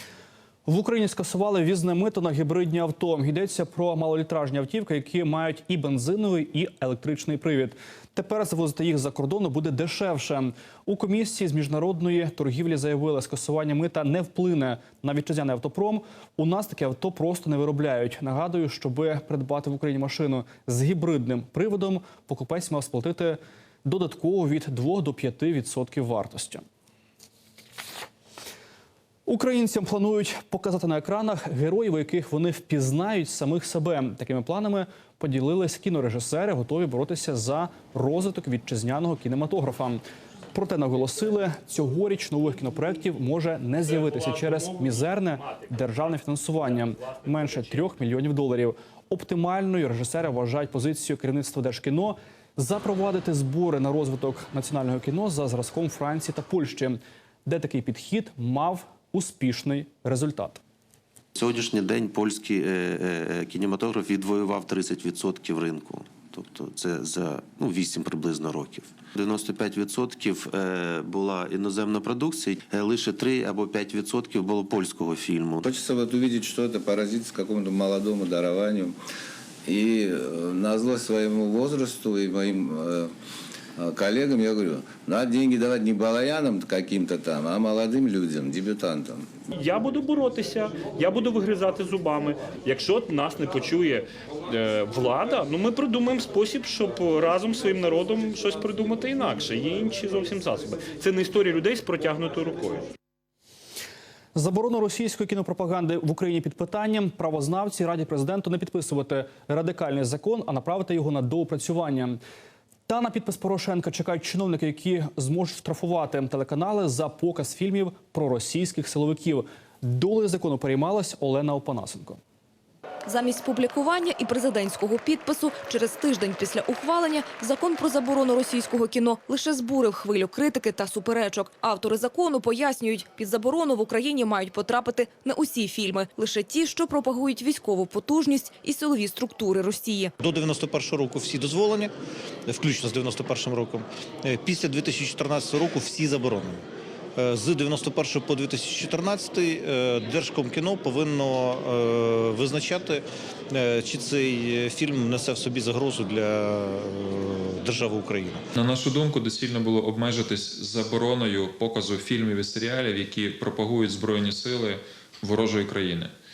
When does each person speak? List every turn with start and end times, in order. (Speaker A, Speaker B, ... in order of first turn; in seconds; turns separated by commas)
Speaker A: 0.7-26.6, Speaker A: 29.3-40.0, Speaker A: 40.5-60.6, Speaker B: 61.4-75.7, Speaker C: 75.7-78.9, Speaker C: 79.7-83.1, Speaker C: 83.8-89.2, Speaker D: 89.5-102.9, Speaker A: 104.3-112.2, Speaker A: 112.9-122.2, Speaker E: 123.1-140.1, Speaker F: 140.2-141.9, Speaker F: 142.5-146.6, Speaker F: 147.2-158.4, Speaker G: 158.6-166.1